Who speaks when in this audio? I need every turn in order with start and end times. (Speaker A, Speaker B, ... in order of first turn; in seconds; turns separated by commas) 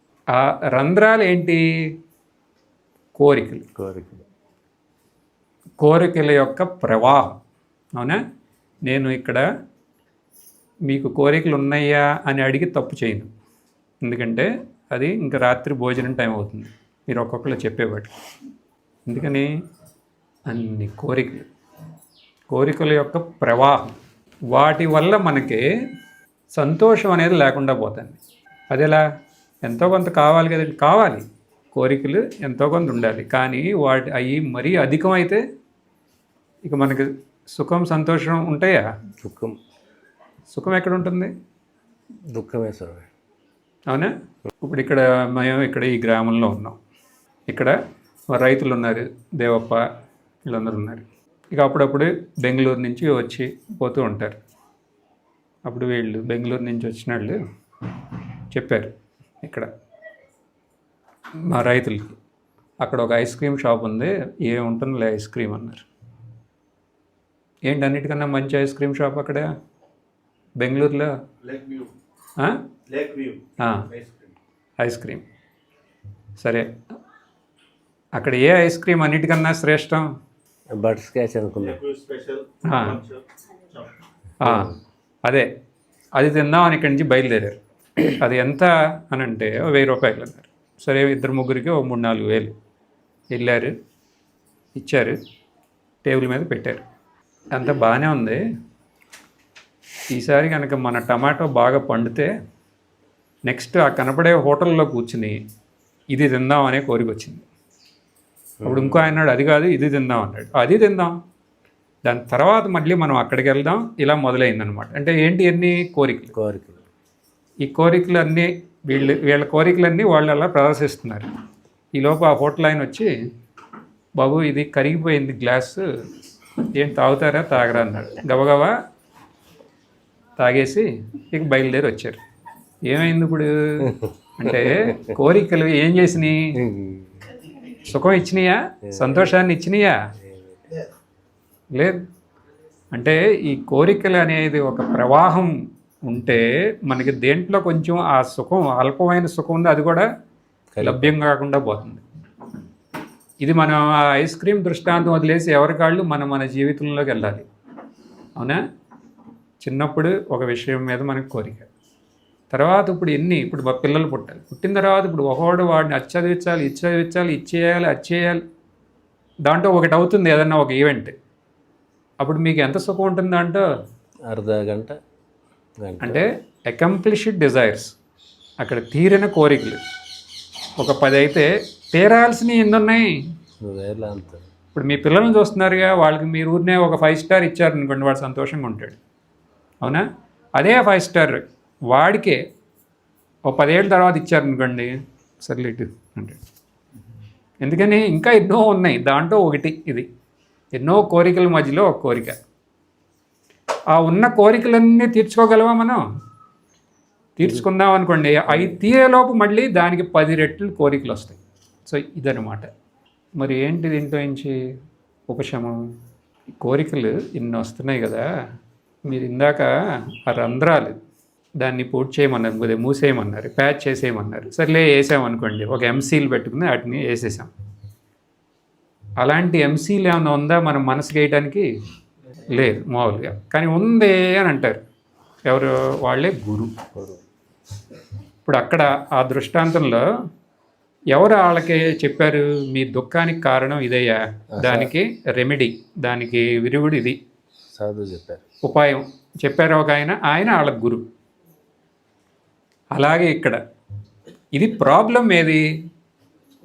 Speaker A: 0.3-1.6, Speaker A: 3.1-3.6, Speaker B: 3.8-4.2, Speaker A: 5.8-7.4, Speaker A: 8.8-9.4, Speaker A: 10.9-13.3, Speaker A: 14.0-18.1, Speaker A: 19.1-19.5, Speaker A: 20.5-21.5, Speaker A: 22.5-23.9, Speaker A: 24.5-25.6, Speaker A: 26.5-28.2, Speaker A: 28.7-29.0, Speaker A: 29.6-35.4, Speaker A: 36.6-38.8, Speaker B: 39.2-39.6, Speaker A: 40.5-41.3, Speaker B: 42.3-43.0, Speaker A: 43.9-46.8, Speaker A: 47.5-47.8, Speaker A: 48.3-49.8, Speaker A: 50.5-54.4, Speaker A: 55.6-57.4, Speaker A: 58.5-59.7, Speaker A: 61.4-62.2, Speaker A: 62.8-65.8, Speaker A: 67.7-69.5, Speaker A: 70.6-71.1, Speaker C: 71.4-71.9, Speaker C: 72.9-74.3, Speaker A: 73.6-73.9, Speaker A: 74.8-75.2, Speaker A: 76.4-76.8, Speaker A: 78.1-80.1, Speaker B: 80.7-81.8, Speaker C: 81.6-83.2, Speaker A: 82.6-83.0, Speaker A: 84.4-85.5, Speaker B: 84.4-84.7, Speaker A: 86.2-92.5, Speaker A: 93.3-93.7, Speaker A: 94.8-95.2, Speaker A: 96.0-96.8, Speaker A: 97.5-98.4, Speaker A: 100.1-102.3, Speaker A: 103.5-105.4, Speaker A: 106.1-107.5, Speaker B: 108.6-109.1, Speaker A: 108.6-111.2, Speaker A: 112.0-116.3, Speaker B: 116.3-116.8, Speaker A: 117.6-121.3, Speaker A: 121.9-123.1, Speaker A: 124.2-125.8, Speaker A: 126.6-128.7, Speaker A: 130.4-132.2, Speaker A: 132.9-136.4, Speaker B: 133.8-135.1, Speaker B: 136.6-137.4, Speaker A: 137.8-140.0, Speaker B: 138.9-139.4, Speaker B: 140.2-140.8, Speaker A: 141.7-142.0, Speaker A: 142.9-145.5, Speaker A: 146.1-150.1, Speaker B: 150.7-151.1, Speaker A: 150.8-152.0, Speaker A: 153.4-157.4, Speaker A: 159.6-161.7, Speaker A: 162.5-168.4, Speaker A: 169.4-171.1, Speaker A: 172.2-173.6, Speaker B: 174.3-174.9, Speaker B: 175.8-176.2, Speaker A: 176.0-177.9, Speaker A: 178.6-179.8, Speaker A: 180.8-183.2, Speaker B: 183.6-184.5, Speaker A: 184.7-189.0, Speaker A: 190.6-192.4, Speaker A: 193.5-196.4, Speaker A: 197.6-200.1, Speaker A: 200.7-202.3, Speaker A: 203.9-206.0, Speaker A: 207.4-212.7, Speaker B: 208.5-208.8, Speaker A: 213.3-214.6, Speaker A: 215.3-215.8, Speaker A: 216.6-218.2, Speaker A: 219.1-219.7, Speaker A: 220.2-221.0, Speaker A: 221.6-227.5, Speaker A: 229.2-231.7, Speaker A: 232.5-234.8, Speaker A: 235.5-236.7, Speaker B: 236.9-237.2, Speaker A: 238.4-240.0, Speaker A: 241.1-247.2, Speaker B: 244.5-244.9, Speaker B: 247.7-248.4, Speaker A: 248.6-251.0, Speaker A: 252.9-253.6, Speaker A: 254.5-255.6